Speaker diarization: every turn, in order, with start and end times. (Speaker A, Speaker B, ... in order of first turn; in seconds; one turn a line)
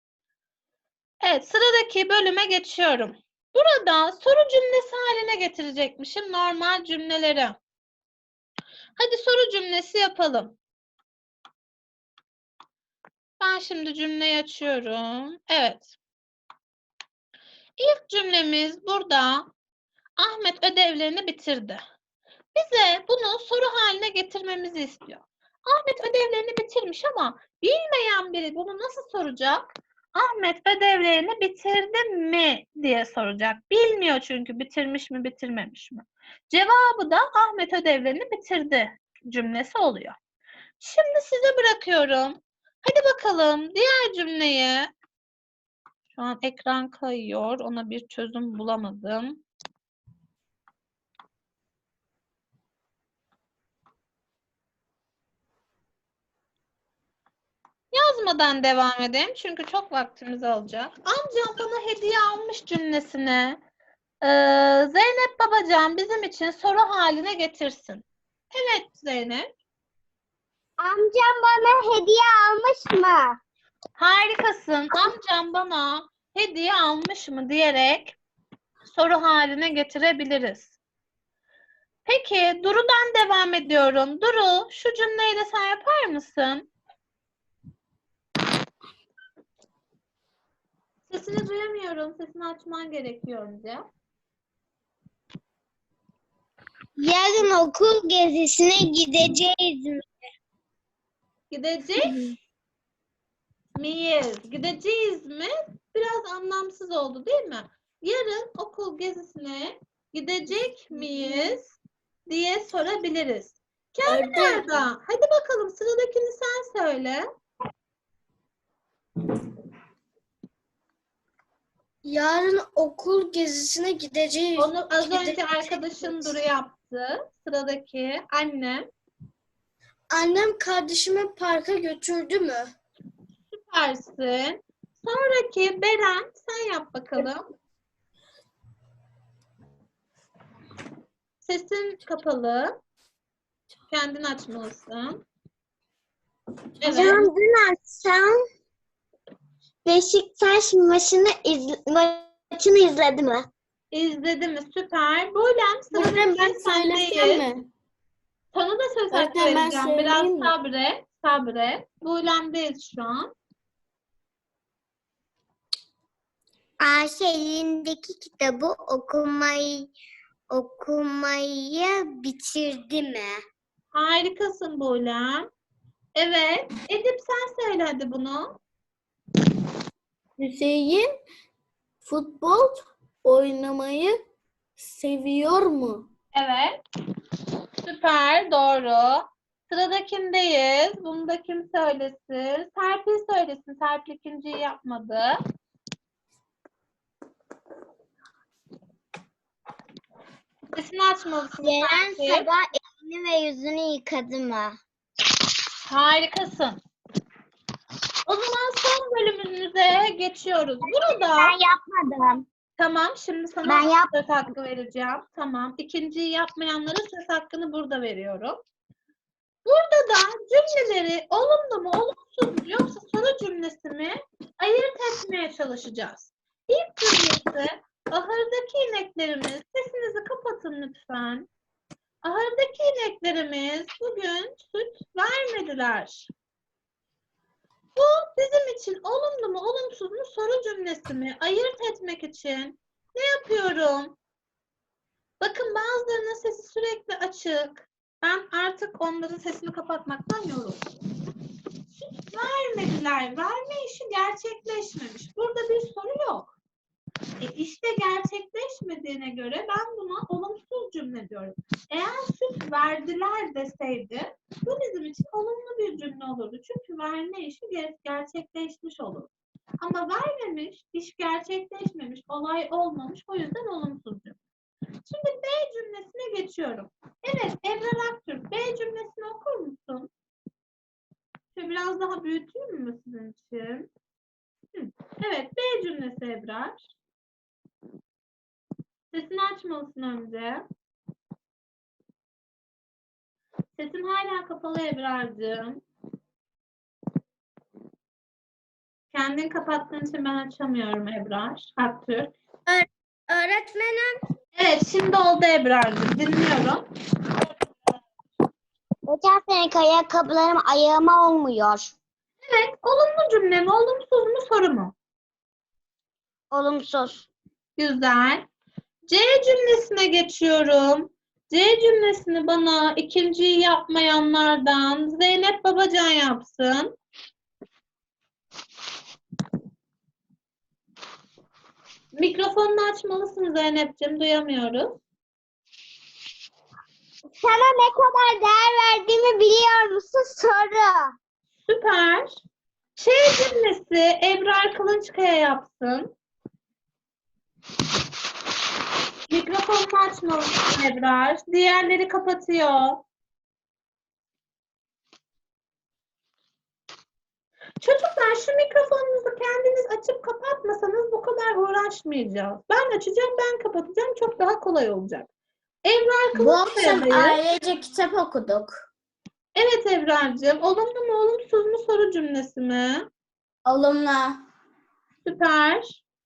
Speaker A: 1.2-7.6
Speaker A: 9.0-10.6
Speaker A: 13.4-15.9
Speaker A: 17.8-19.5
Speaker A: 20.2-21.8
Speaker A: 22.5-40.2
Speaker A: 40.8-44.9
Speaker A: 46.1-49.4
Speaker A: 57.9-63.6
Speaker A: 64.2-69.5
Speaker B: 70.8-73.4
Speaker A: 74.0-78.2
Speaker A: 78.9-80.8
Speaker A: 82.1-86.7
Speaker A: 91.1-93.8
Speaker B: 97.0-100.1
Speaker A: 101.5-102.2
Speaker A: 103.8-111.8
Speaker A: 112.3-117.2
Speaker C: 114.1-114.8
Speaker C: 122.0-126.4
Speaker A: 124.6-128.9
Speaker C: 130.1-132.7
Speaker A: 133.5-137.5
Speaker A: 141.4-142.8
Speaker A: 143.9-145.2
Speaker A: 146.8-147.2
Speaker B: 146.8-148.3
Speaker B: 149.8-153.5
Speaker A: 153.9-157.4
Speaker C: 155.9-157.7
Speaker A: 158.5-163.3
Speaker C: 159.1-160.5
Speaker B: 166.8-169.9
Speaker B: 170.5-173.4
Speaker A: 173.9-175.5
Speaker A: 176.2-178.6
Speaker C: 180.4-181.1
Speaker C: 182.0-184.2
Speaker C: 184.8-186.1
Speaker A: 186.3-186.8
Speaker A: 187.8-195.4
Speaker A: 200.8-202.5
Speaker B: 201.6-204.8
Speaker A: 205.9-206.8
Speaker A: 208.3-211.6
Speaker B: 210.8-212.5
Speaker A: 212.8-218.6
Speaker B: 213.7-214.2
Speaker A: 219.7-231.5
Speaker A: 232.2-236.3
Speaker A: 238.0-244.2
Speaker A: 245.4-250.8
Speaker A: 251.9-256.5
Speaker A: 257.4-269.3
Speaker A: 269.8-274.4
Speaker A: 275.1-280.1
Speaker A: 281.5-283.9
Speaker A: 284.8-286.9
Speaker A: 289.1-290.6
Speaker A: 293.8-295.8
Speaker A: 299.1-302.3
Speaker C: 302.7-304.1
Speaker A: 304.6-306.8
Speaker B: 309.1-311.9
Speaker A: 312.4-314.9
Speaker B: 316.5-317.3
Speaker A: 317.8-318.5
Speaker A: 319.1-326.9
Speaker A: 332.1-335.0
Speaker B: 337.4-341.1
Speaker A: 341.7-342.4
Speaker A: 343.0-346.1
Speaker A: 349.3-353.0
Speaker A: 357.8-365.3
Speaker A: 365.9-367.4
Speaker C: 366.4-368.8
Speaker A: 369.6-373.1
Speaker C: 373.6-374.4
Speaker A: 375.2-376.0